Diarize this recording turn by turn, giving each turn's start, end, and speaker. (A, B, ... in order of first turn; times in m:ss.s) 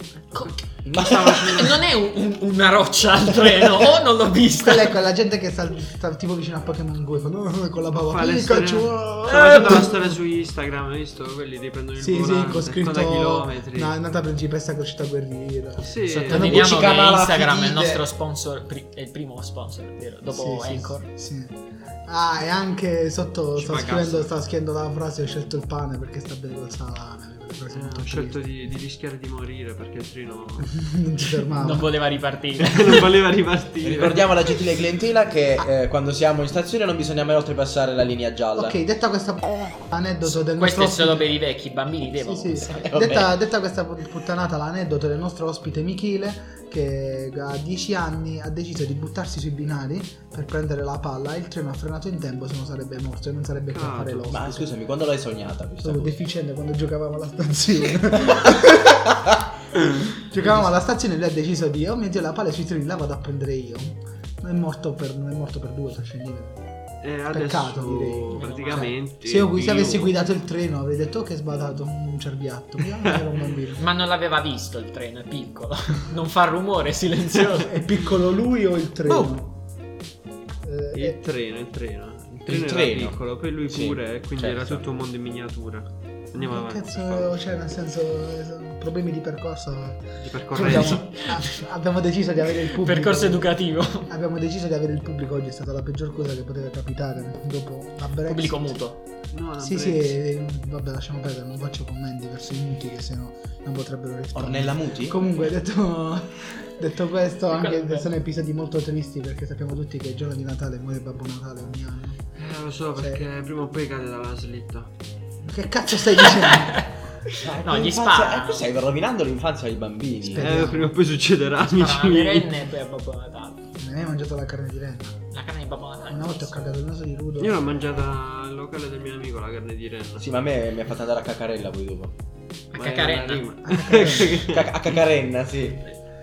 0:00.3-0:01.4 A
0:00.3-0:04.9 B
0:00.8-0:01.8 C
0:04.6-0:10.2 D
0:08.0-0:13.9 A
0:12.0-0:16.7 D
0:15.8-0:16.6 A
0:16.1-0:21.1 B
0:16.3-0:18.1 C
0:20.3-0:28.4 D
0:23.6-0:24.3 A
0:27.7-0:30.8 A
0:30.7-0:31.9 D
0:31.6-0:33.1 B
0:32.6-0:34.3 A
0:33.8-0:38.8 C
0:38.6-0:41.3 D
0:40.2-0:43.3 B
0:42.2-0:54.7 D
0:42.7-0:43.3 C
0:53.6-0:54.4 A
0:54.3-0:56.2 C
0:55.8-0:59.1 D
0:59.7-1:06.6 D
1:07.0-1:10.1 A
1:07.3-1:13.8 D
1:08.3-1:09.0 B
1:13.8-1:17.8 B
1:17.6-1:19.6 D
1:20.6-1:21.2 D
1:20.9-1:27.4 A
1:22.5-1:23.2 C
1:23.7-1:24.9 C
1:26.3-1:33.5 D
1:30.2-1:31.4 A
1:32.8-1:34.1 B
1:34.1-1:38.8 D
1:38.3-1:39.0 B
1:39.3-1:40.2 A
1:39.6-1:52.2 D
1:44.4-1:45.3 C
1:47.5-1:48.1 B
1:52.4-1:54.9 A
1:53.0-1:53.2 D
1:55.4-1:56.9 D
1:56.2-1:56.9 B
1:57.4-2:00.6 C
1:57.6-1:58.7 B
2:00.2-2:01.0 D
2:00.4-2:02.5 A
2:01.6-2:03.6 B
2:03.8-2:05.2 D
2:05.3-2:06.6 B
2:06.1-2:07.8 D
2:07.4-2:10.3 A
2:10.2-2:12.1 C
2:12.7-2:15.0 A
2:12.7-2:13.5 B
2:13.6-2:14.4 D
2:14.0-2:15.9 C